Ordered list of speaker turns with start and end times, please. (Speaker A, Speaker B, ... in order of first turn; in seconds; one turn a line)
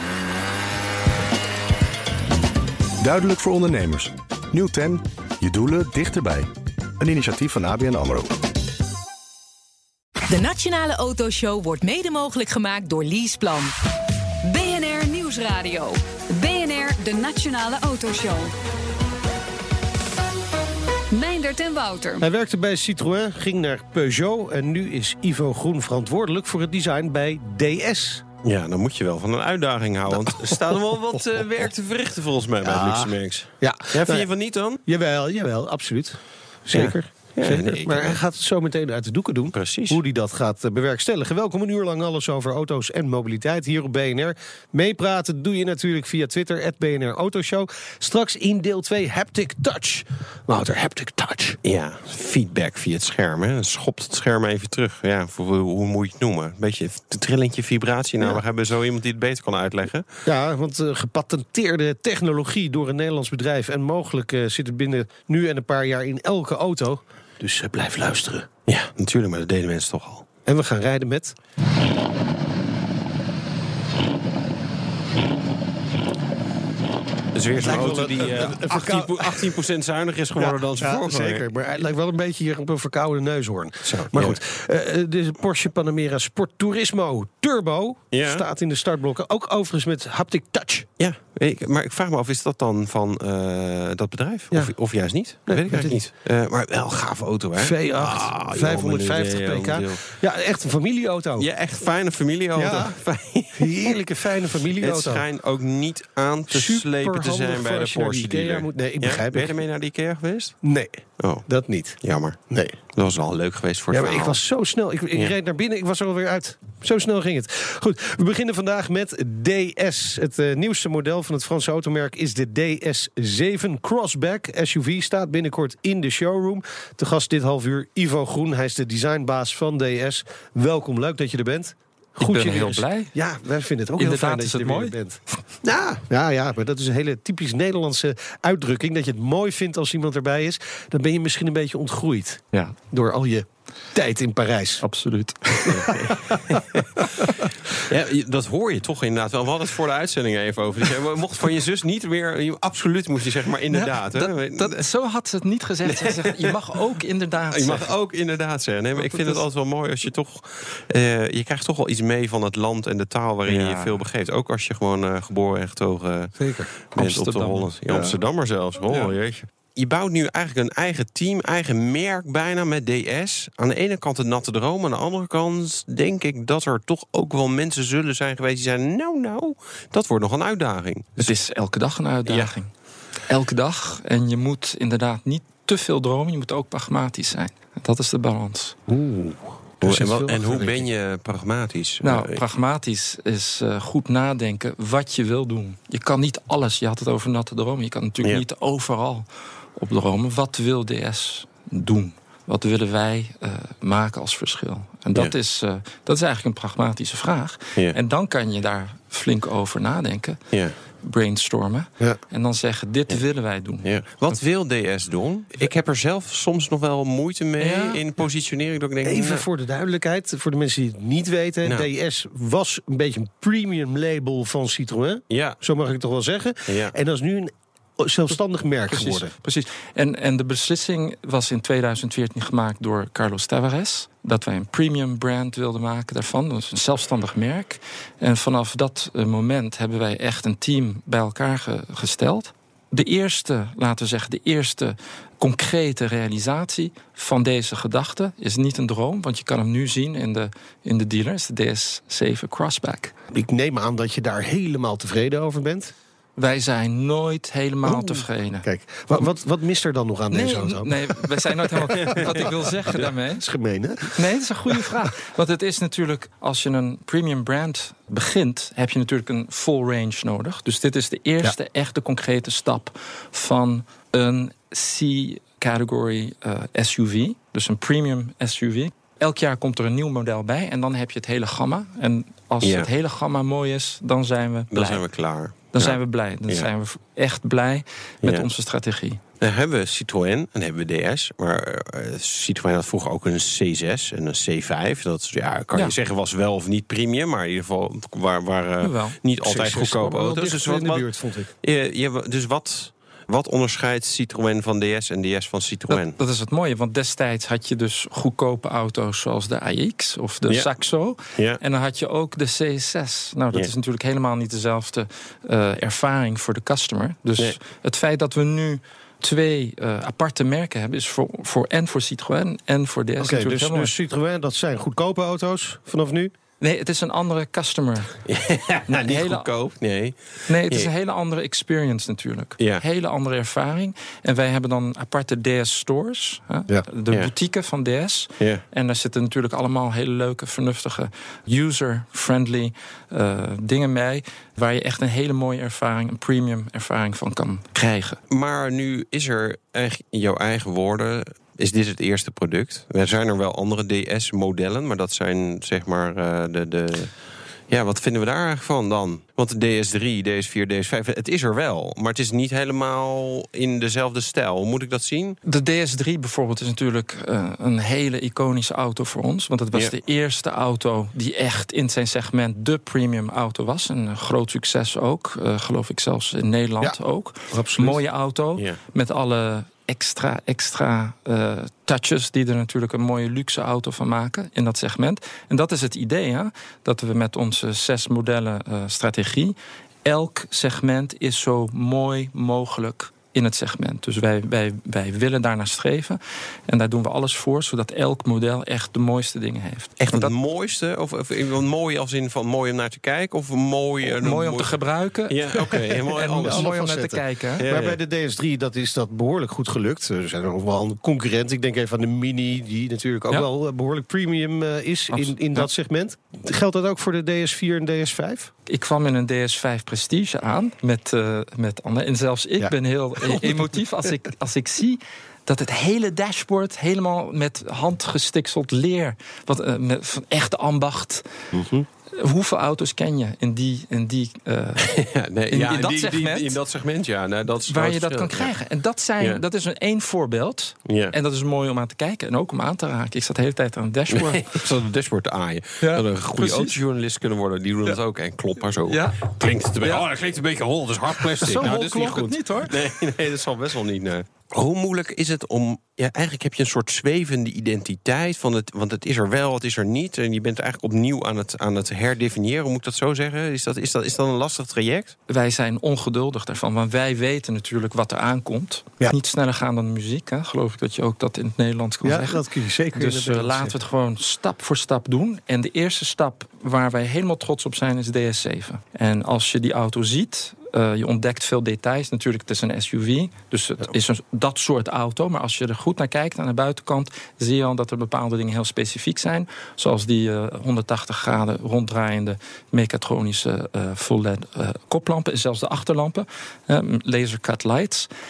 Speaker A: 3.0-6.5
Speaker A: 7.0-8.3
Speaker B: 10.3-13.7
Speaker C: 14.4-18.5
Speaker C: 21.1-22.2
Speaker D: 22.2-28.2
Speaker E: 28.4-34.8
Speaker D: 30.1-31.6
Speaker D: 32.6-34.3
Speaker D: 34.8-51.6
Speaker E: 36.7-38.2
Speaker E: 39.5-40.0
Speaker E: 51.6-60.0
Speaker D: 60.2-68.5
Speaker E: 68.7-70.3
Speaker D: 70.5-71.3
Speaker E: 77.3-81.5
Speaker D: 77.6-79.6
Speaker D: 80.3-90.9
Speaker E: 83.8-84.4
Speaker E: 88.1-88.4
Speaker E: 91.0-100.1
Speaker D: 94.5-96.0
Speaker D: 97.6-101.5
Speaker E: 101.4-104.0
Speaker D: 102.5-103.0
Speaker D: 103.5-105.2
Speaker E: 104.7-110.6
Speaker D: 106.5-109.6
Speaker D: 110.6-112.8
Speaker E: 111.2-111.5
Speaker E: 112.0-112.4
Speaker E: 112.9-114.4
Speaker D: 113.9-144.8
Speaker F: 132.2-133.1
Speaker F: 134.0-135.4
Speaker F: 144.8-145.8
Speaker D: 145.6-147.5
Speaker E: 145.7-147.0
Speaker E: 147.8-154.8
Speaker F: 153.7-157.9
Speaker E: 155.8-156.6
Speaker E: 157.5-181.3
Speaker F: 158.9-159.4
Speaker F: 163.4-164.1
Speaker D: 166.3-166.7
Speaker F: 166.9-167.7
Speaker D: 167.9-168.2
Speaker F: 181.2-182.7
Speaker E: 182.3-182.5
Speaker F: 183.2-188.8
Speaker D: 188.9-190.9
Speaker E: 189.8-192.4
Speaker F: 192.0-210.4
Speaker F: 211.0-214.4
Speaker E: 213.8-219.4
Speaker F: 217.6-218.0
Speaker D: 219.0-229.3
Speaker E: 225.3-225.6
Speaker E: 226.7-226.9
Speaker F: 228.9-253.1
Speaker D: 253.3-255.9
Speaker F: 256.4-259.3
Speaker D: 257.8-264.9
Speaker F: 260.3-263.4
Speaker F: 264.1-285.0
Speaker E: 282.6-282.9
Speaker E: 284.7-286.7
Speaker F: 285.7-289.2
Speaker E: 289.4-306.2
Speaker F: 298.8-299.2
Speaker D: 299.4-301.5
Speaker F: 305.9-323.9
Speaker E: 311.3-311.6
Speaker D: 323.2-326.3
Speaker F: 326.6-328.2
Speaker E: 328.3-330.9
Speaker F: 328.9-329.5
Speaker F: 330.5-348.2
Speaker E: 348.3-357.1
Speaker E: 357.7-365.4
Speaker F: 365.4-400.3
Speaker D: 377.5-378.0
Speaker E: 400.0-404.7
Speaker F: 404.0-407.7
Speaker E: 405.3-406.7
Speaker D: 406.4-418.5
Speaker E: 407.6-408.0
Speaker F: 415.1-415.7
Speaker F: 418.7-431.3
Speaker D: 422.6-423.7
Speaker D: 431.5-431.9
Speaker F: 432.1-434.9
Speaker E: 434.8-438.5
Speaker F: 435.5-436.6
Speaker F: 437.7-444.5
Speaker E: 440.9-441.1
Speaker E: 444.1-465.1
Speaker F: 445.8-446.8
Speaker F: 448.8-450.0
Speaker F: 451.4-452.8
Speaker F: 465.3-498.1
Speaker D: 472.0-473.8